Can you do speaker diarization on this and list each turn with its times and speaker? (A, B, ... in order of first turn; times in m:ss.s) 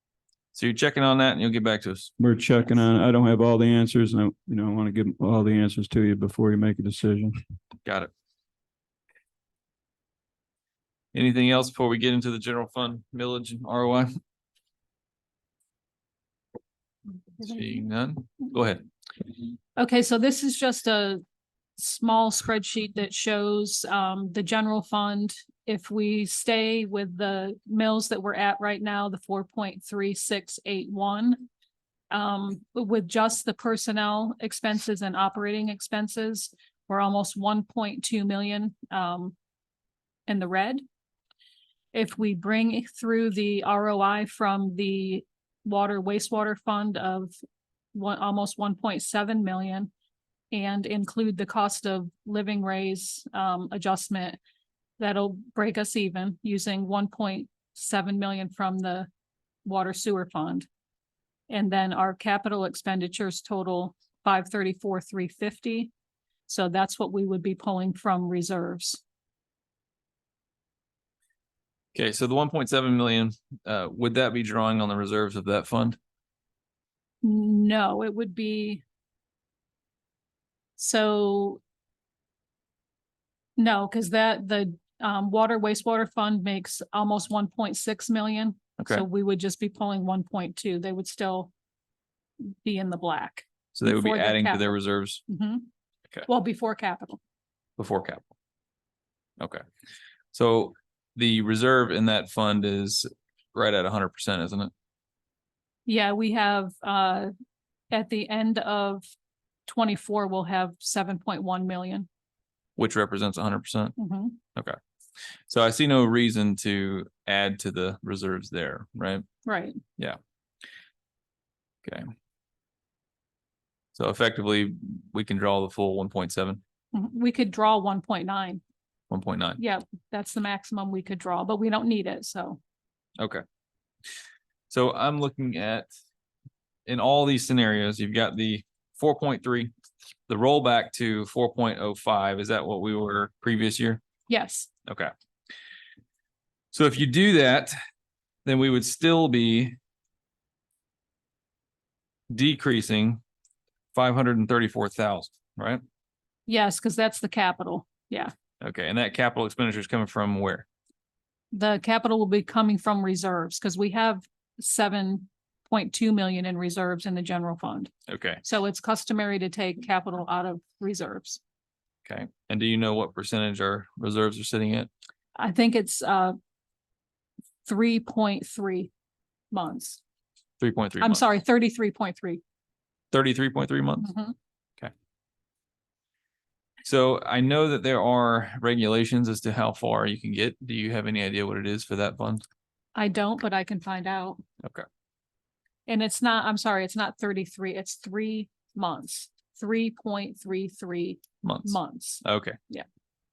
0:00.5-0:02.1 A
0:02.2-0:07.3 B
0:07.8-0:08.1 A
0:11.1-0:14.1 A
0:17.4-0:18.8 A
0:19.8-0:21.2 C
0:21.8-0:31.5 C
0:32.1-0:39.3 C
0:40.3-0:40.8 C
0:41.9-0:47.4 C
0:47.9-0:49.9 C
0:50.5-0:54.4 C
0:55.0-0:59.1 C
0:59.6-1:00.7 C
1:01.5-1:05.9 C
1:06.5-1:09.0 C
1:11.9-1:16.0 A
1:17.2-1:18.8 C
1:20.8-1:21.6 C
1:23.6-1:31.5 C
1:28.8-1:29.0 A
1:32.4-1:34.8 C
1:33.7-1:35.2 A
1:35.3-1:35.7 C
1:36.2-1:37.2 C
1:37.8-1:38.2 A
1:40.3-1:44.7 A
1:45.8-1:47.3 C
1:47.9-1:49.1 C
1:49.7-1:52.1 C
1:52.8-1:54.0 A
1:54.0-1:54.4 C
1:55.5-1:59.2 A
1:59.4-1:59.8 C
2:03.9-2:06.6 A
2:06.9-2:08.6 C
2:09.1-2:09.6 A
2:09.6-2:12.6 C
2:14.7-2:15.9 A
2:16.8-2:19.7 A
2:20.3-2:24.0 A
2:24.3-2:24.7 C
2:24.8-2:25.1 A
2:26.7-2:27.8 A
2:28.4-2:29.8 A
2:32.3-2:33.2 A
2:33.9-2:35.8 A
2:36.5-2:38.3 C
2:38.6-2:40.6 A
2:41.5-2:47.9 C
2:48.1-2:48.4 A
2:48.4-2:51.4 C
2:52.0-2:54.9 A
2:55.4-2:56.4 C
2:57.6-2:58.9 C
2:59.5-3:00.0 C
3:00.6-3:01.2 A
3:01.0-3:02.4 C
3:03.1-3:04.1 A
3:04.0-3:04.3 C
3:06.8-3:12.4 A
3:12.9-3:14.4 C
3:15.9-3:22.8 C
3:21.4-3:22.6 A